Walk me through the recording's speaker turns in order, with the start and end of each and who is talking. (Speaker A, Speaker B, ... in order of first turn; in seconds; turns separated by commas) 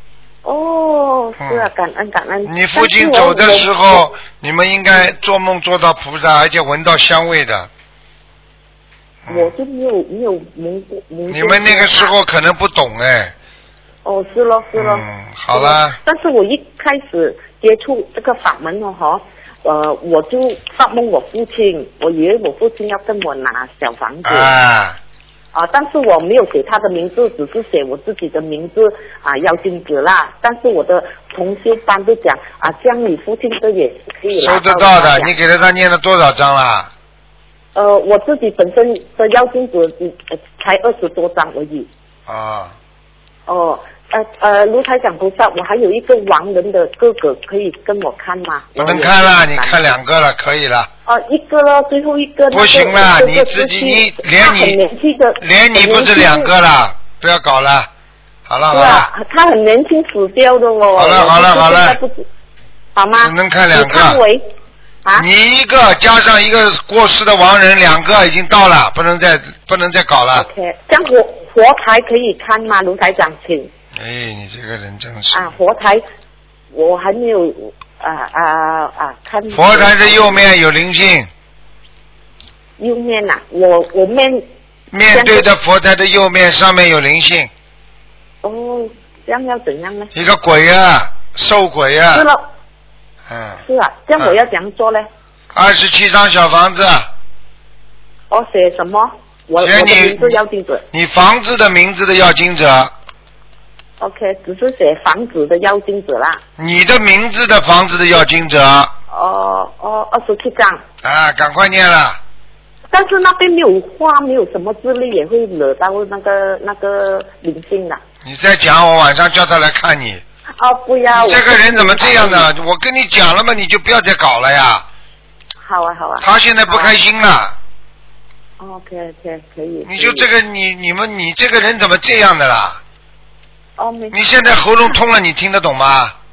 Speaker A: 0.4-4.1, Speaker B: 1.4-1.7, Speaker B: 2.5-7.7, Speaker B: 9.3-9.5, Speaker A: 9.3-12.1, Speaker B: 11.3-13.3, Speaker A: 14.0-24.6, Speaker B: 14.8-16.0, Speaker B: 24.2-25.0, Speaker A: 25.5-35.3, Speaker B: 34.4-36.9, Speaker A: 37.8-41.9, Speaker B: 42.3-42.7, Speaker A: 43.5-49.9, Speaker B: 48.8-50.9, Speaker A: 51.1-56.5, Speaker B: 52.5-54.8, Speaker B: 55.4-57.9, Speaker B: 58.5-59.1, Speaker A: 58.7-62.3, Speaker B: 61.0-62.0, Speaker A: 63.0-64.5, Speaker B: 63.2-64.2, Speaker B: 65.2-70.5, Speaker A: 70.3-73.7, Speaker B: 74.0-75.5, Speaker A: 75.3-76.0, Speaker A: 76.7-80.5, Speaker B: 79.5-81.3, Speaker A: 82.8-84.5, Speaker B: 84.9-87.5, Speaker A: 85.1-85.5, Speaker A: 88.4-90.1, Speaker B: 90.1-92.3, Speaker A: 92.1-92.5, Speaker B: 93.3-93.6, Speaker A: 93.6-95.1, Speaker B: 95.5-97.1, Speaker A: 98.3-100.8, Speaker B: 99.6-100.4, Speaker B: 100.9-102.9, Speaker A: 104.0-106.4, Speaker B: 106.6-108.9, Speaker A: 109.1-110.8, Speaker B: 111.0-112.2, Speaker A: 112.9-118.0, Speaker B: 118.2-120.2, Speaker A: 120.6-122.5, Speaker B: 121.1-124.9, Speaker A: 125.6-127.0, Speaker B: 126.2-127.6, Speaker A: 128.6-130.3, Speaker B: 129.9-132.8, Speaker A: 133.8-134.6, Speaker B: 134.1-136.2